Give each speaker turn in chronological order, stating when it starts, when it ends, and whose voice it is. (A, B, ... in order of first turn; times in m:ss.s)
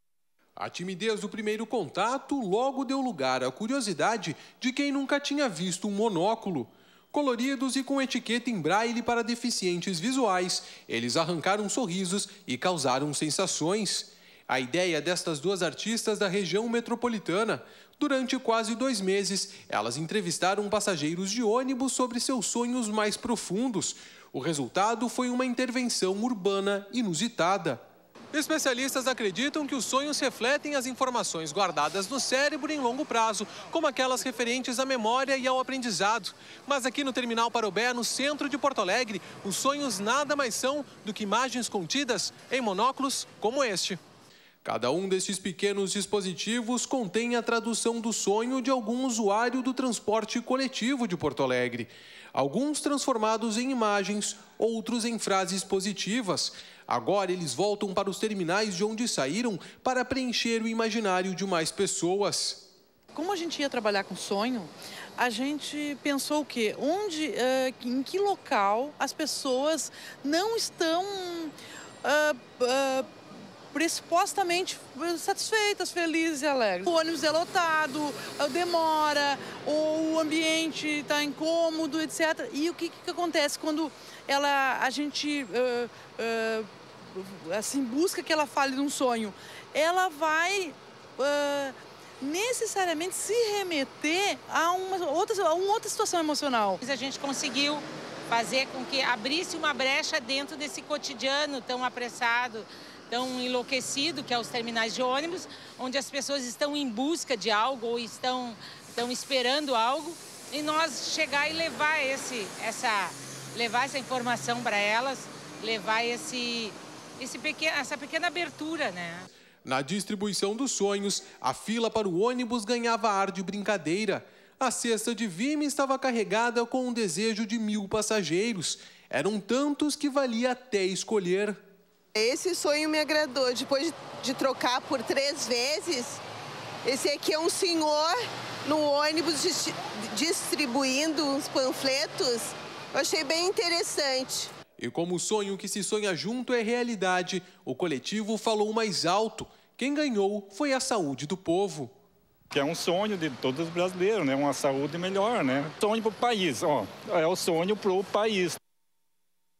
0:00.6-0:44.0 A
0:44.6-1:02.6 A
1:03.1-1:11.5 B
1:12.0-1:13.1 B
1:13.7-1:36.8 B
1:36.8-1:59.2 C
1:59.6-2:11.6 A
2:12.2-2:16.2 D
2:16.8-2:24.4 D
2:24.8-2:31.9 A
2:32.5-2:38.6 E